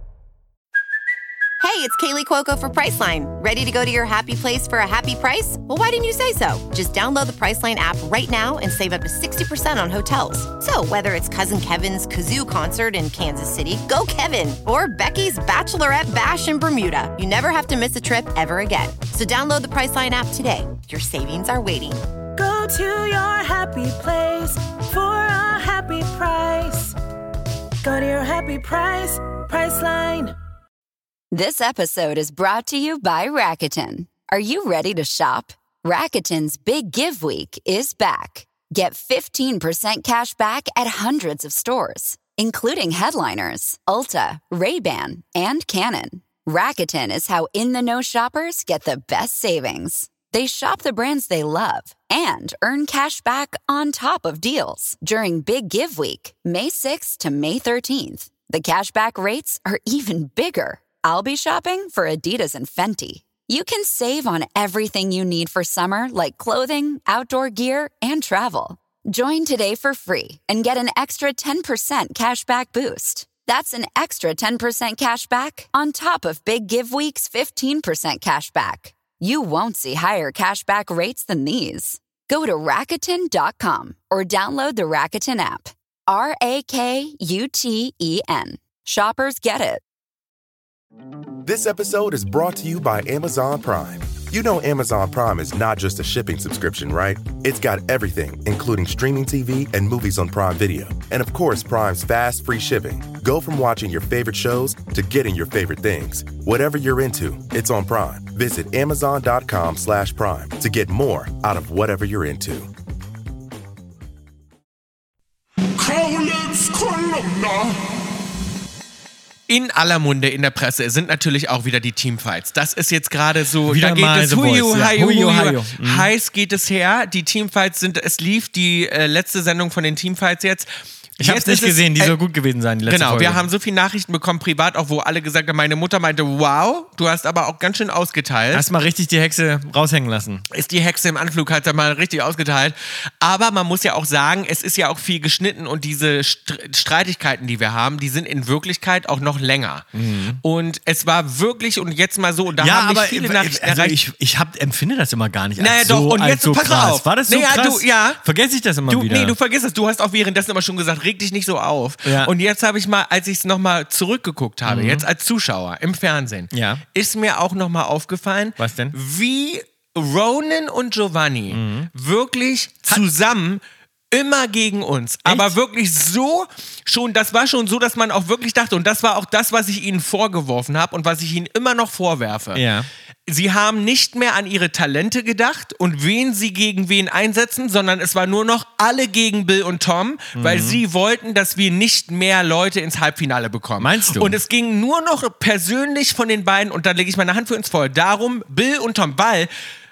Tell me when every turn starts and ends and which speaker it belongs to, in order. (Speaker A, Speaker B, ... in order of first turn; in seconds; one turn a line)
Speaker A: 1.6-22.0
Speaker B: 22.4-27.0
Speaker B: 27.8-30.3
Speaker C: 31.3-89.8
Speaker D: 91.4-112.7
Speaker E: 115.8-117.8
Speaker F: 119.5-132.2
Speaker G: 123.7-126.1
Speaker G: 131.2-133.4
Speaker F: 132.9-138.7
Speaker G: 138.5-140.4
Speaker F: 140.5-149.8
Speaker G: 149.9-150.4
Speaker F: 150.4-154.0
Speaker G: 152.6-159.4
Speaker F: 155.6-158.2
Speaker F: 158.9-182.6
Speaker G: 162.1-162.3
Speaker G: 164.7-165.1
Speaker G: 166.5-166.8
Speaker G: 168.6-169.0
Speaker G: 171.5-171.9
Speaker G: 175.2-175.5
Speaker G: 182.5-182.9
Speaker F: 183.3-199.5
Speaker G: 190.4-190.8
Speaker G: 193.8-194.4